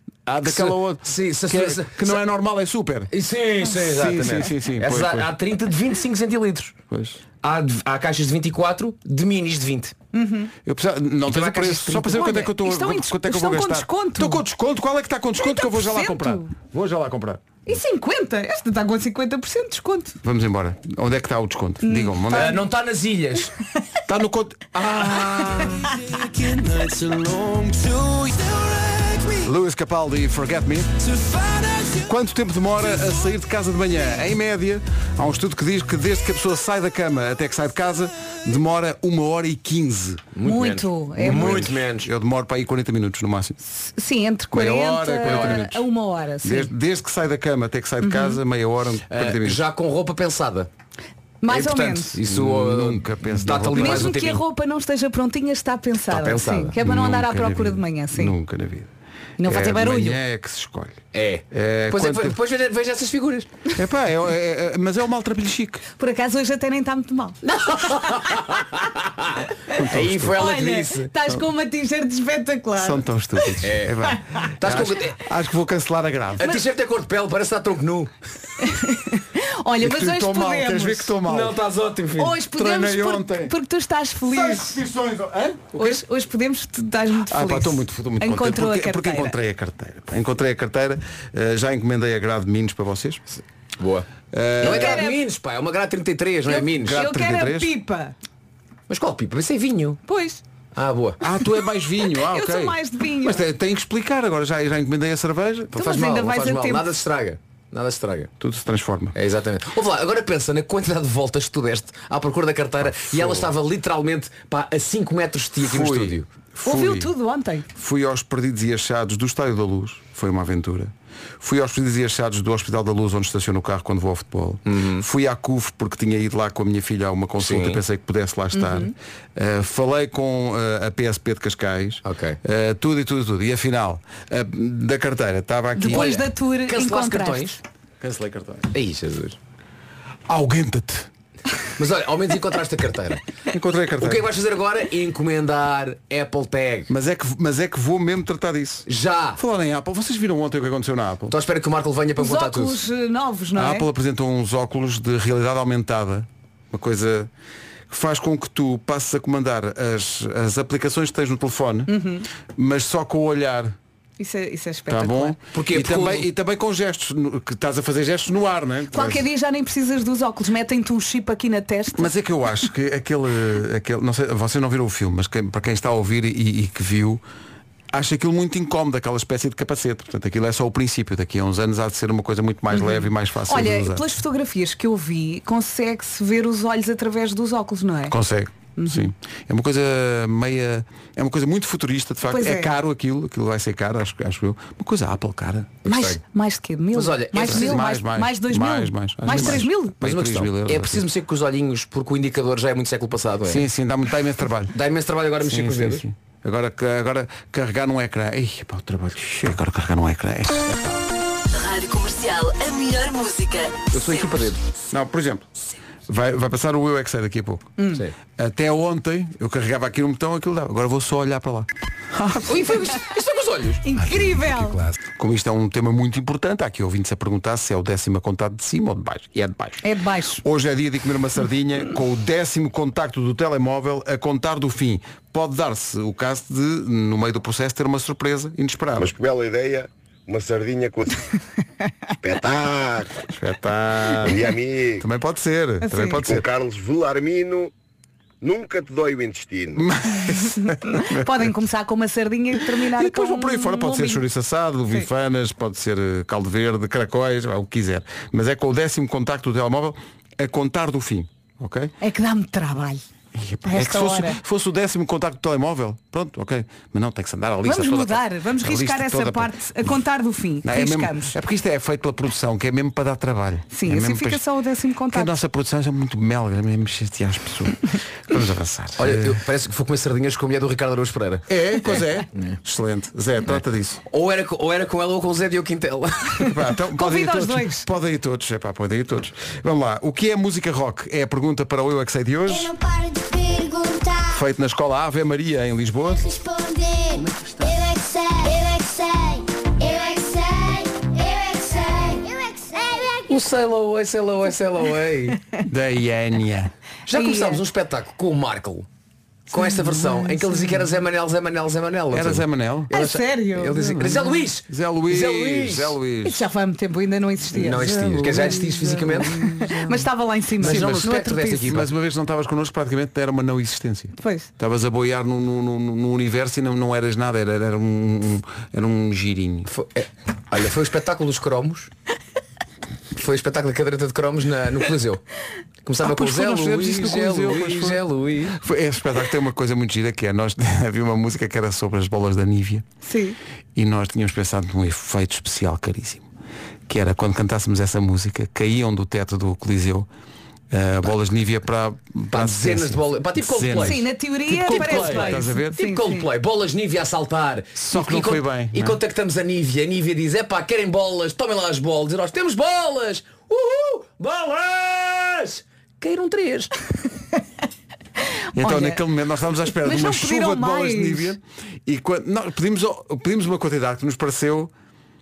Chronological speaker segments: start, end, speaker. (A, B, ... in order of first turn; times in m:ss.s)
0:00.3-0:03.1 A
0:00.4-0:02.2 B
0:03.1-0:06.8 B
0:03.7-0:05.3 A
0:06.9-0:07.2 A
0:07.4-0:10.0 B
0:10.1-0:10.5 C
0:10.6-0:17.4 A
0:11.3-0:12.3 B
0:12.2-0:14.4 C
0:15.4-0:16.5 C
0:17.7-0:20.2 C
0:20.2-0:22.6 A
0:21.8-0:22.6 C
0:22.3-0:23.5 B
0:24.1-0:27.9 A
0:29.4-0:31.1 A
0:31.9-0:40.3 A
0:40.4-0:42.1 B
0:40.4-0:41.7 C
0:41.2-0:43.6 A
0:43.6-0:46.7 C
0:44.5-0:45.8 A
0:45.2-0:45.6 B
0:46.4-0:49.6 A
0:48.0-0:48.4 C
0:49.1-0:50.7 B
0:51.4-0:52.2 C
0:51.5-0:54.4 B
0:52.2-0:54.2 A
0:53.8-0:58.4 C
0:56.1-0:56.8 B
0:56.8-0:58.9 A
0:59.4-1:00.2 C
0:59.4-1:02.4 A
1:01.1-1:03.5 B
1:03.8-1:05.8 A
1:06.0-1:07.4 C
1:07.5-1:11.1 B
1:09.7-1:10.4 A
1:10.3-1:13.6 C
1:12.8-1:16.5 A
1:13.6-1:15.2 B
1:16.4-1:18.1 B
1:18.6-1:21.2 C
1:19.8-1:21.6 A
1:21.2-1:22.4 B
1:22.2-1:24.8 C
1:22.5-1:23.5 A
1:24.3-1:26.0 A
1:25.8-1:29.4 C
1:27.3-1:33.2 A
1:33.8-1:34.1 B
1:34.3-1:35.0 A
1:34.6-1:35.2 C
1:34.6-1:37.0 B
1:36.5-1:38.1 C
1:36.8-1:37.7 A
1:38.9-1:40.0 B
1:40.1-1:40.4 C
1:40.8-1:41.2 B
1:41.2-1:45.9 A
1:42.1-1:43.4 C
1:45.8-1:47.0 C
1:45.8-1:48.3 B
1:48.4-1:49.2 A
1:49.2-1:56.3 B
1:52.8-1:53.5 A
1:55.6-1:57.1 A
1:56.6-1:57.7 C
1:57.8-2:16.2 A
2:04.7-2:05.0 B
2:07.4-2:07.8 B
2:08.5-2:08.9 C
2:12.0-2:12.4 B
2:15.8-2:17.6 C
2:15.9-2:17.6 B
2:18.0-2:18.7 A
2:18.7-2:19.4 B
2:20.3-2:21.1 A
2:21.8-2:23.2 B
2:23.5-2:24.2 A
2:24.0-2:26.9 B
2:26.9-2:31.4 A
2:28.9-2:29.4 B
2:31.3-2:32.8 B
2:32.2-2:33.9 C
2:33.6-2:37.3 A
2:37.9-2:41.9 A
2:41.9-2:42.2 C
2:42.6-2:43.8 A
2:44.2-2:45.4 C
2:44.9-2:49.2 A
2:45.5-2:46.3 B
2:48.9-2:52.1 C
2:52.0-2:57.2 A
2:57.9-3:04.0 A
3:02.7-3:08.2 C
3:08.1-3:15.8 A
3:08.8-3:09.1 C
3:12.3-3:12.7 C
3:15.8-3:16.2 B
3:15.8-3:20.0 C
3:16.9-3:17.8 B
3:17.4-3:21.0 A
3:19.3-3:23.6 B
3:23.5-3:24.7 A
3:24.7-3:26.0 B
3:25.4-3:30.9 A
3:31.6-3:33.7 D
3:33.9-3:34.6 B
3:34.9-3:35.4 A
3:36.1-3:37.7 A
3:37.8-3:38.0 C
3:38.4-3:41.7 A
3:42.4-3:44.9 B
3:43.8-3:44.8 C
3:45.2-3:49.8 A
3:49.8-3:50.4 C
3:50.4-3:59.1 A
3:59.0-4:01.2 E
4:02.2-4:03.2 E
4:03.3-4:04.4 A
4:04.2-4:05.0 E
4:05.0-4:06.4 A
4:05.8-4:06.2 C
4:06.2-4:07.7 E
4:08.4-4:09.9 E
4:09.8-4:11.3 A
4:10.9-4:14.2 C
4:13.0-4:21.9 A
4:22.0-4:23.0 C
4:23.4-4:29.5 A
4:23.7-4:24.4 C
4:27.6-4:31.3 C
4:30.6-4:34.4 A
4:33.7-4:35.4 C
4:35.1-4:39.4 A
4:39.0-4:41.4 B
4:41.5-4:44.0 A
4:44.1-4:46.5 B
4:46.4-4:52.7 A
4:46.9-4:47.9 C
4:52.7-4:54.2 F
4:54.3-4:56.3 A
4:56.4-4:57.2 F
4:57.7-5:03.2 F
5:03.3-5:05.4 B
5:05.7-5:06.7 A
5:07.1-5:08.9 B
5:07.1-5:07.6 C
5:09.5-5:16.0 B
5:12.1-5:13.0 A
5:12.9-5:14.2 C
5:13.8-5:16.4 A
5:16.2-5:17.9 C
5:17.5-5:19.6 B
5:17.8-5:20.1 A
5:19.3-5:21.7 C
5:20.6-5:21.9 B
5:20.6-5:29.7 A
5:24.2-5:24.5 C
5:29.7-5:31.9 B
5:33.2-5:35.2 B
5:35.8-5:38.6 B
5:36.0-5:38.0 A
5:38.5-5:42.8 A
5:43.0-5:43.4 C
5:43.8-5:46.2 A
5:46.9-5:50.1 A
5:50.7-5:55.8 A
5:52.3-5:54.0 B
5:53.8-5:56.3 C
5:54.7-6:06.7 B
5:57.8-5:59.0 A
6:08.6-6:14.7 A
6:08.6-6:09.0 C
6:09.7-6:11.3 C